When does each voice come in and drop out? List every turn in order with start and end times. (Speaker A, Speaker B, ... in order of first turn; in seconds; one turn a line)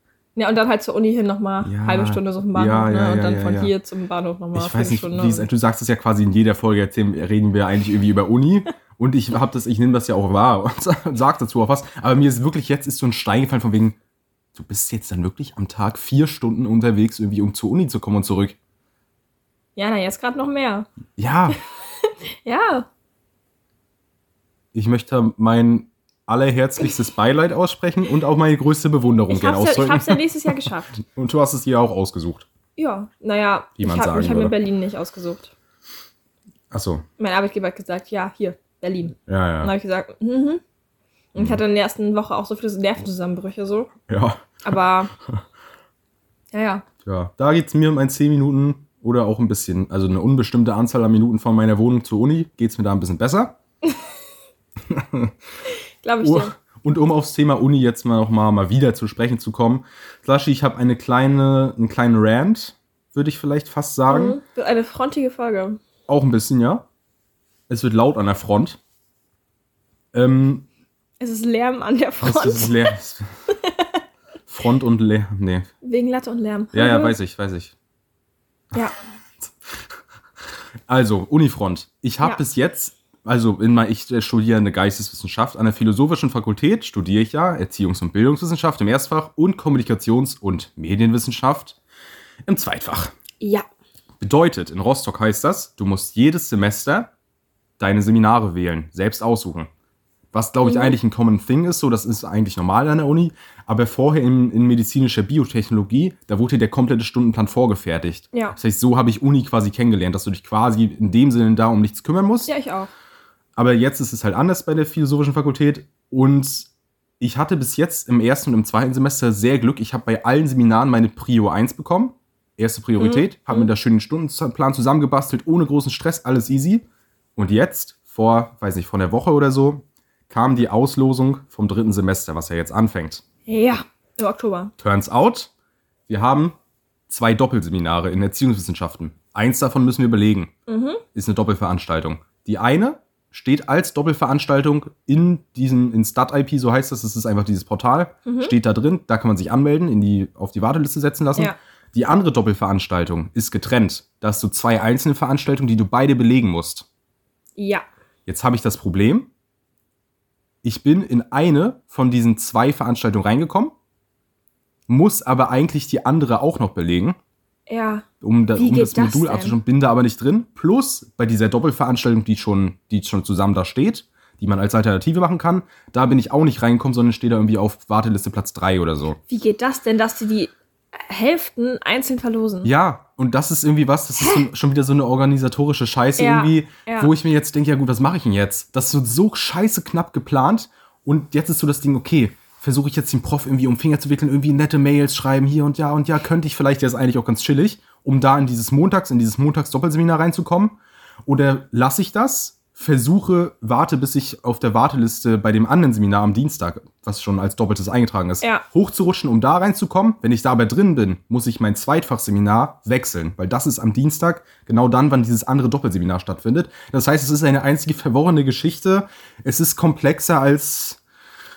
Speaker A: 0.4-5.5
Speaker B: 1.6-3.7
Speaker B: 4.5-14.0
Speaker B: 14.6-18.6
Speaker A: 19.8-20.9
Speaker B: 21.2-21.6
Speaker A: 21.5-22.9
Speaker B: 24.7-32.5
Speaker A: 29.3-31.0
Speaker A: 32.8-35.5
Speaker B: 33.8-34.6
Speaker B: 36.7-37.0
Speaker A: 37.2-40.6
Speaker B: 39.3-39.7
Speaker A: 41.4-43.9
Speaker B: 41.4-41.6
Speaker B: 44.1-44.5
Speaker A: 44.6-45.1
Speaker A: 46.5-46.9
Speaker B: 47.0-53.5
Speaker B: 54.9-55.3
Speaker A: 56.0-56.5
Speaker B: 56.2-64.4
Speaker A: 64.1-65.8
Speaker B: 66.1-66.8
Speaker B: 67.7-68.8
Speaker B: 70.1-70.7
Speaker A: 71.2-72.9
Speaker B: 72.2-73.3
Speaker A: 73.5-74.0
Speaker B: 74.5-75.7
Speaker A: 75.8-77.2
Speaker B: 76.7-77.7
Speaker B: 79.4-79.8
Speaker B: 80.9-91.8
Speaker B: 92.5-93.1
Speaker B: 94.2-97.1
Speaker B: 97.8-99.7
Speaker B: 100.3-112.5
Speaker A: 100.6-101.0
Speaker A: 112.5-112.9
Speaker B: 113.6-126.8
Speaker A: 123.0-123.7
Speaker B: 127.4-133.2
Speaker A: 133.5-134.7
Speaker B: 134.8-135.5
Speaker B: 136.1-136.6
Speaker B: 137.1-140.5
Speaker A: 140.7-141.0
Speaker B: 141.1-156.9
Speaker A: 148.3-148.5
Speaker A: 157.6-157.8
Speaker B: 158.3-159.3
Speaker B: 160.6-163.7
Speaker B: 164.9-167.2
Speaker A: 167.7-169.6
Speaker B: 168.2-179.2
Speaker A: 179.3-182.7
Speaker B: 182.6-221.0
Speaker A: 186.2-187.1